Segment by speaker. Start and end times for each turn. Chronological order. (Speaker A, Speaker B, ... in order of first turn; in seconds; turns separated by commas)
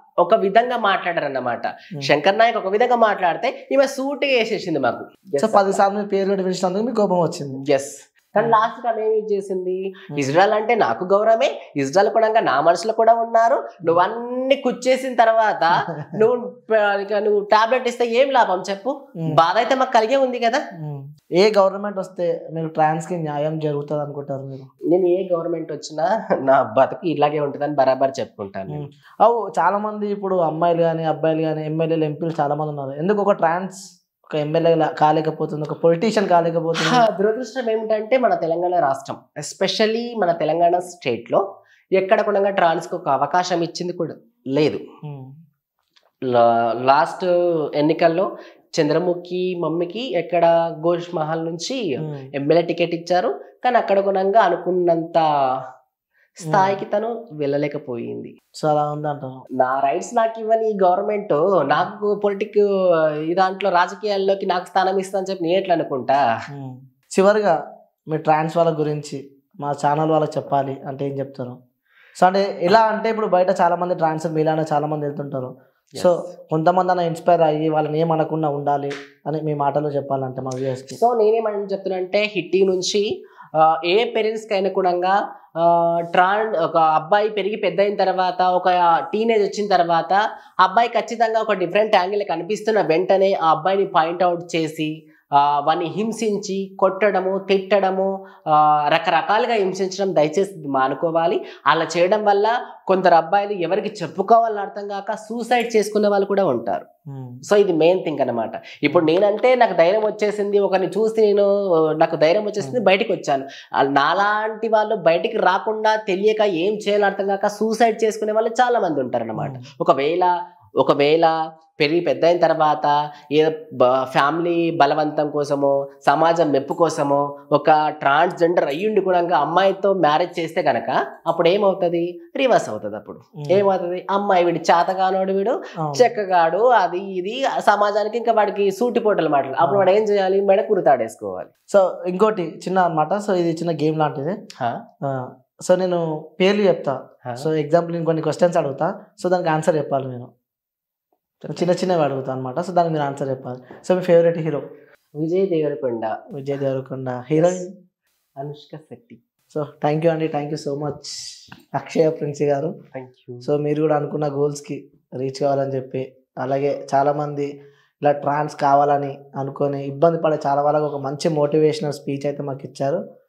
Speaker A: 0.2-5.8, Speaker B: 5.4-7.6, Speaker A: 7.6-20.6, Speaker B: 20.8-24.7, Speaker A: 24.9-28.8, Speaker B: 28.7-33.8, Speaker B: 34.3-37.0, Speaker A: 36.8-41.4, Speaker A: 42.0-44.8, Speaker B: 45.0-45.3, Speaker A: 46.3-51.8, Speaker B: 52.0-52.3, Speaker A: 52.4-55.2, Speaker A: 56.4-58.3, Speaker B: 56.5-56.8, Speaker B: 58.6-59.4, Speaker A: 59.6-62.6, Speaker A: 63.3-66.2, Speaker B: 66.5-67.5, Speaker B: 68.1-71.6, Speaker B: 72.2-81.0, Speaker A: 76.0-76.3, Speaker A: 81.0-83.0, Speaker A: 83.6-106.9, Speaker B: 107.1-107.4, Speaker A: 107.5-111.5, Speaker A: 112.0-141.5, Speaker B: 119.4-119.6, Speaker B: 135.8-136.1, Speaker B: 141.7-144.3, Speaker B: 145.0-150.3, Speaker A: 151.4-151.7, Speaker B: 151.5-154.6, Speaker A: 155.2-156.1, Speaker B: 156.3-157.7, Speaker A: 157.4-157.6, Speaker A: 158.4-159.2, Speaker B: 159.5-161.2, Speaker B: 161.8-162.7, Speaker A: 162.9-163.5, Speaker B: 163.4-167.5, Speaker B: 168.0-173.0